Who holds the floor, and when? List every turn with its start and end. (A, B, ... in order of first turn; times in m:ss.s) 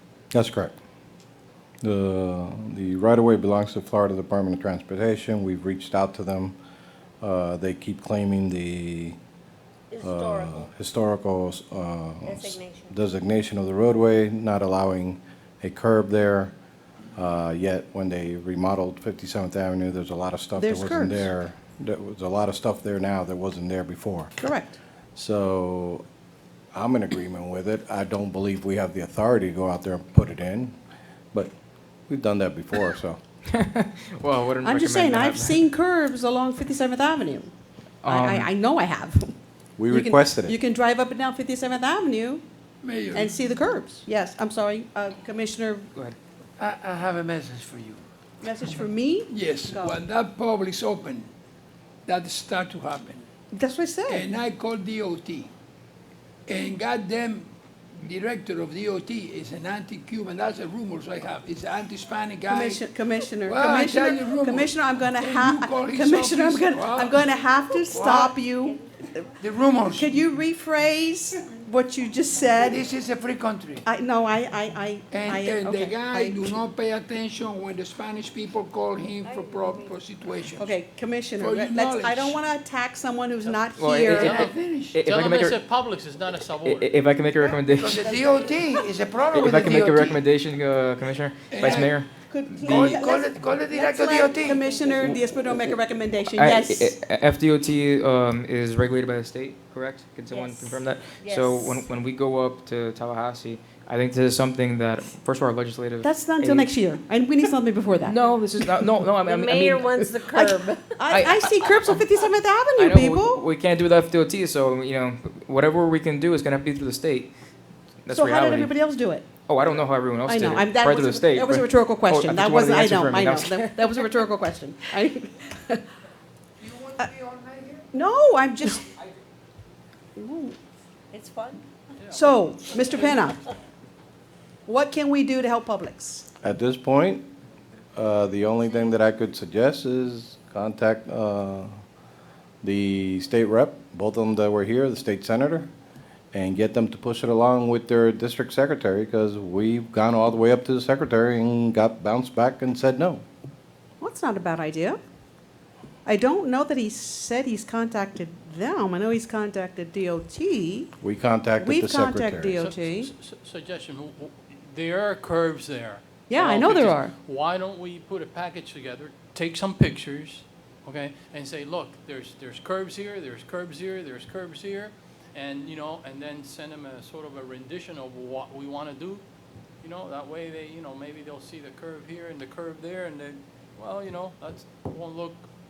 0:00.3-0:00.7 A
0:01.8-0:06.6 A
0:07.2-0:09.2 A
0:09.9-0:10.6 B
0:10.0-0:16.5 A
0:12.2-0:12.9 B
0:17.2-0:24.3 A
0:20.6-0:21.3 C
0:24.4-0:24.8 C
0:25.2-0:26.0 A
0:26.7-0:30.7 A
0:32.1-0:33.2 A
0:33.5-0:35.6 D
0:34.6-0:37.5 C
0:38.0-0:38.5 D
0:38.0-0:39.3 C
0:39.8-0:40.6 A
0:39.9-0:42.4 C
0:42.8-0:43.3 E
0:43.1-0:45.9 C
0:46.6-0:48.0 E
0:48.4-0:50.0 C
0:49.3-0:51.3 E
0:52.0-0:53.2 E
0:53.5-0:54.3 C
0:54.1-0:55.5 E
0:56.5-1:02.8 E
1:02.5-1:09.4 C
1:03.4-1:07.3 E
1:07.9-1:08.3 E
1:09.4-1:10.1 E
1:09.9-1:12.8 C
1:12.6-1:13.8 E
1:13.8-1:16.6 C
1:15.1-1:20.7 E
1:19.2-1:19.9 B
1:20.6-1:24.5 C
1:21.4-1:22.4 E
1:23.4-1:24.5 F
1:23.8-1:25.6 D
1:24.0-1:25.0 E
1:25.0-1:26.9 F
1:26.6-1:28.1 D
1:27.8-1:30.2 E
1:29.3-1:32.1 D
1:31.5-1:31.9 E
1:32.3-1:36.9 C
1:32.6-1:34.6 E
1:34.5-1:35.1 B
1:36.4-1:46.7 D
1:40.3-1:41.8 B
1:46.0-1:48.2 C
1:48.0-1:50.5 D
1:49.2-1:51.1 B
1:51.0-1:53.4 C
1:51.1-1:51.9 D
1:52.8-1:57.3 D
1:58.0-1:58.7 D
1:58.1-1:59.2 C
1:59.5-2:03.7 D
2:00.2-2:05.8 C
2:07.9-2:08.8 C
2:10.2-2:10.6 C
2:11.1-2:11.6 B
2:12.0-2:12.3 F
2:12.1-2:13.4 C
2:14.6-2:16.3 C
2:16.4-2:17.2 A
2:18.0-2:21.7 A
2:22.6-2:25.7 A
2:26.3-2:33.2 A
2:34.0-2:35.0 C
2:36.0-2:40.9 C
2:41.0-2:42.6 A
2:41.6-2:43.1 C
2:42.6-2:59.2 F
2:46.3-2:47.1 C
2:59.8-3:05.4 F